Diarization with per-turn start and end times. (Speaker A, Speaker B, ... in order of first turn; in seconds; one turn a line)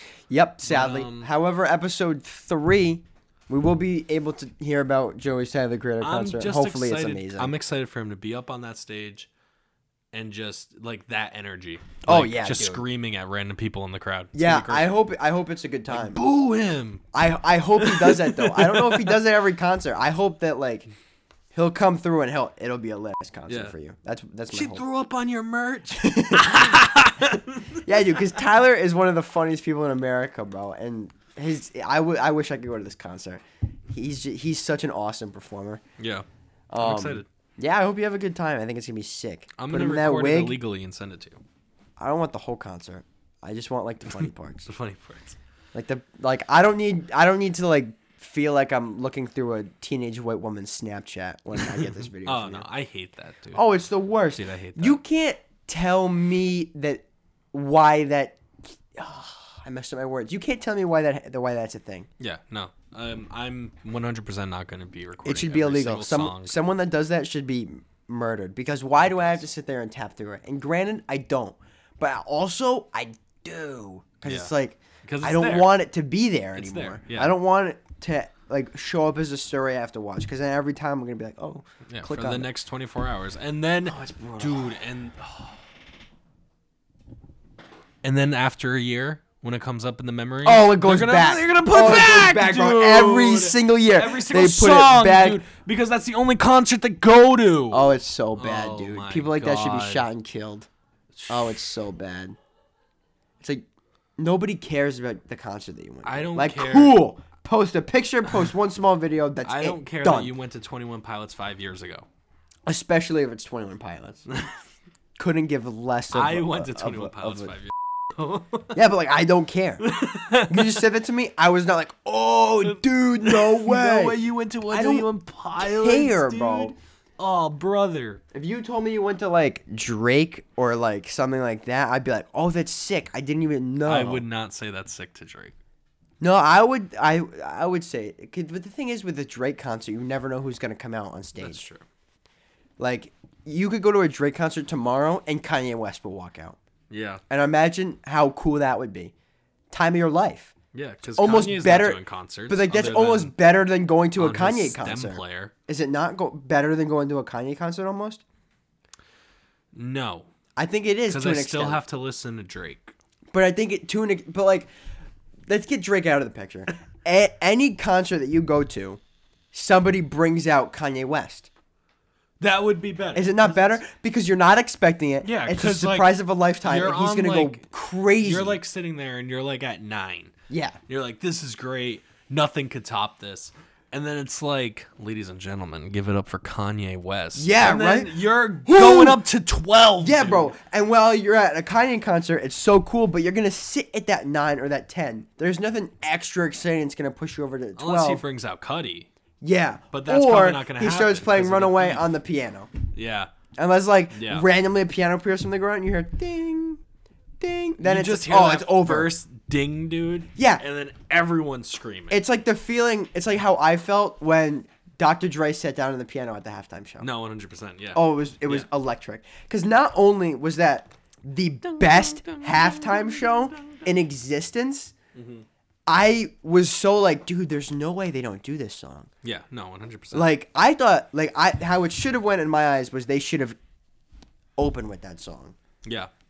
Speaker A: 0.3-7.5
Speaker B: 0.7-1.3
Speaker B: 6.0-9.3
Speaker B: 10.1-14.9
Speaker A: 12.0-12.8
Speaker A: 14.3-16.2
Speaker B: 15.9-17.0
Speaker A: 17.1-20.9
Speaker B: 17.8-19.2
Speaker A: 21.5-24.8
Speaker B: 23.5-23.7
Speaker B: 24.5-28.4
Speaker A: 25.9-26.8
Speaker A: 27.8-35.8
Speaker B: 36.0-36.2
Speaker A: 36.7-40.6
Speaker B: 36.8-37.3
Speaker B: 39.6-41.4
Speaker A: 42.0-44.7
Speaker B: 44.6-45.4
Speaker A: 45.7-52.7
Speaker B: 51.8-53.6
Speaker A: 53.5-62.1
Speaker B: 54.3-55.0
Speaker B: 62.2-66.5
Speaker A: 65.2-82.5
Speaker B: 74.2-74.5
Speaker B: 75.0-75.7
Speaker B: 76.5-77.4
Speaker B: 81.9-85.6
Speaker A: 83.8-84.8
Speaker B: 88.0-100.1
Speaker A: 90.4-95.4
Speaker A: 97.7-100.7
Speaker B: 101.1-101.6
Speaker A: 101.3-102.4
Speaker A: 103.4-103.7
Speaker A: 104.2-110.3
Speaker B: 106.0-107.0
Speaker B: 109.4-112.1
Speaker A: 112.7-114.3
Speaker B: 114.3-114.6
Speaker A: 115.2-117.5
Speaker B: 116.1-118.8
Speaker A: 118.7-126.7
Speaker B: 119.8-120.8
Speaker B: 122.6-128.2
Speaker A: 128.3-134.2
Speaker B: 133.8-135.6
Speaker A: 136.2-141.6
Speaker B: 141.4-141.8
Speaker A: 142.8-146.6
Speaker B: 146.9-147.2
Speaker A: 147.3-149.1
Speaker A: 149.7-150.5
Speaker B: 150.7-153.3
Speaker A: 151.2-158.2
Speaker B: 154.2-155.5
Speaker B: 159.7-160.3
Speaker A: 160.6-161.8
Speaker B: 161.1-162.9
Speaker A: 163.3-164.7
Speaker A: 165.5-169.0
Speaker A: 169.5-171.5
Speaker B: 172.4-173.8
Speaker A: 173.1-178.6
Speaker B: 175.2-177.7
Speaker B: 178.2-180.3
Speaker A: 180.5-180.8
Speaker B: 180.9-190.5
Speaker A: 187.3-189.2
Speaker A: 190.0-198.2
Speaker B: 197.8-199.1
Speaker A: 199.4-202.7
Speaker B: 199.9-202.1
Speaker B: 202.9-203.3
Speaker A: 203.6-206.8
Speaker B: 204.1-204.5
Speaker A: 207.4-209.1
Speaker B: 207.8-212.2
Speaker A: 210.3-210.6
Speaker A: 212.1-217.1
Speaker B: 217.0-218.7
Speaker A: 217.9-224.9
Speaker B: 221.6-223.9
Speaker B: 225.1-225.4
Speaker A: 225.9-229.1
Speaker B: 229.2-230.3
Speaker A: 230.1-233.6
Speaker A: 234.6-235.6
Speaker B: 235.8-236.1